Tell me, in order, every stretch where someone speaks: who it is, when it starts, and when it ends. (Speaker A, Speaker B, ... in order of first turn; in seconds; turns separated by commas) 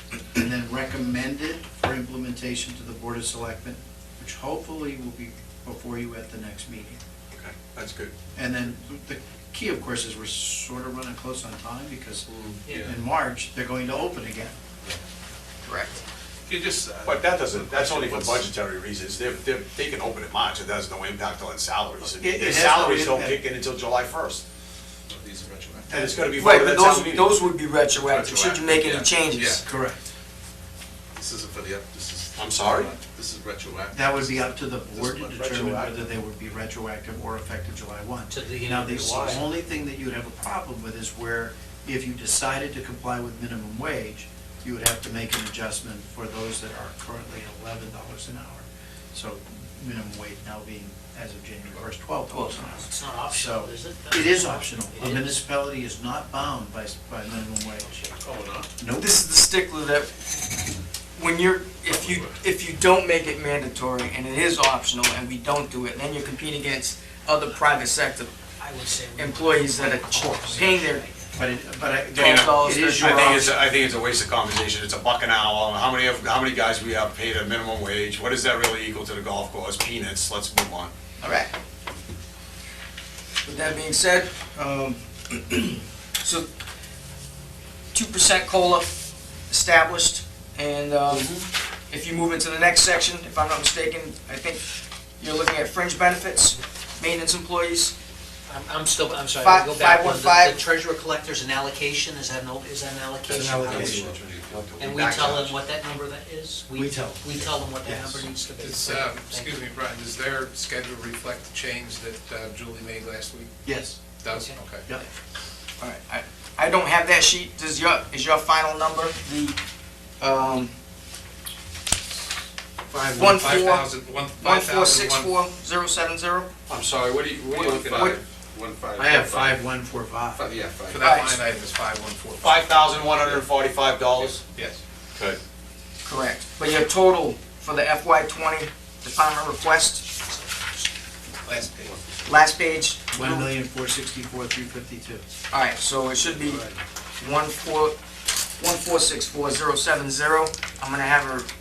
Speaker A: 0.3-7.0, Speaker B: 7.3-8.1, Speaker A: 8.3-14.6, Speaker C: 12.7-12.9, Speaker D: 15.6-15.9, Speaker E: 16.5-18.4, Speaker B: 17.0-24.4, Speaker A: 22.0-23.4, Speaker E: 25.1-26.0, Speaker B: 25.9-27.4, Speaker A: 25.9-26.2, Speaker D: 26.4-29.6, Speaker E: 27.9-29.6, Speaker A: 29.6-30.1, Speaker E: 31.1-36.0, Speaker B: 32.4-32.9, Speaker A: 33.9-58.0, Speaker C: 38.3-39.5, Speaker D: 52.3-52.6, Speaker C: 52.7-55.4, Speaker E: 58.2-58.7, Speaker A: 58.8-59.2, Speaker D: 59.0-60.6, Speaker D: 61.2-68.3, Speaker E: 61.9-62.4, Speaker C: 68.6-71.4, Speaker D: 69.1-71.0, Speaker A: 71.3-73.5, Speaker B: 72.1-80.9, Speaker D: 72.2-73.5, Speaker D: 81.2-81.5, Speaker D: 83.4-86.5, Speaker D: 87.9-91.3, Speaker B: 91.1-91.4, Speaker D: 91.9-94.6, Speaker D: 95.2-97.9, Speaker C: 98.5-104.0, Speaker D: 99.4-100.6, Speaker A: 103.3-104.1, Speaker B: 103.3-105.3, Speaker F: 104.6-105.5, Speaker C: 104.8-109.6, Speaker A: 106.7-108.3, Speaker F: 108.6-113.5, Speaker A: 113.6-114.0, Speaker F: 114.2-114.9, Speaker C: 114.3-114.5, Speaker D: 115.8-119.6, Speaker D: 120.2-120.7, Speaker A: 122.9-123.5, Speaker F: 123.1-125.3, Speaker D: 123.2-123.9, Speaker D: 124.4-126.5, Speaker B: 126.7-128.2, Speaker F: 127.5-128.2, Speaker E: 127.6-129.6, Speaker A: 129.0-130.5, Speaker E: 130.3-131.2, Speaker F: 130.9-132.9, Speaker D: 131.0-131.3, Speaker B: 132.4-134.4, Speaker F: 134.5-134.8, Speaker D: 136.0-140.4, Speaker F: 141.4-142.0, Speaker D: 142.2-143.5, Speaker A: 143.1-145.2, Speaker D: 145.5-146.6, Speaker E: 146.3-146.8, Speaker D: 147.2-148.0, Speaker D: 148.6-151.5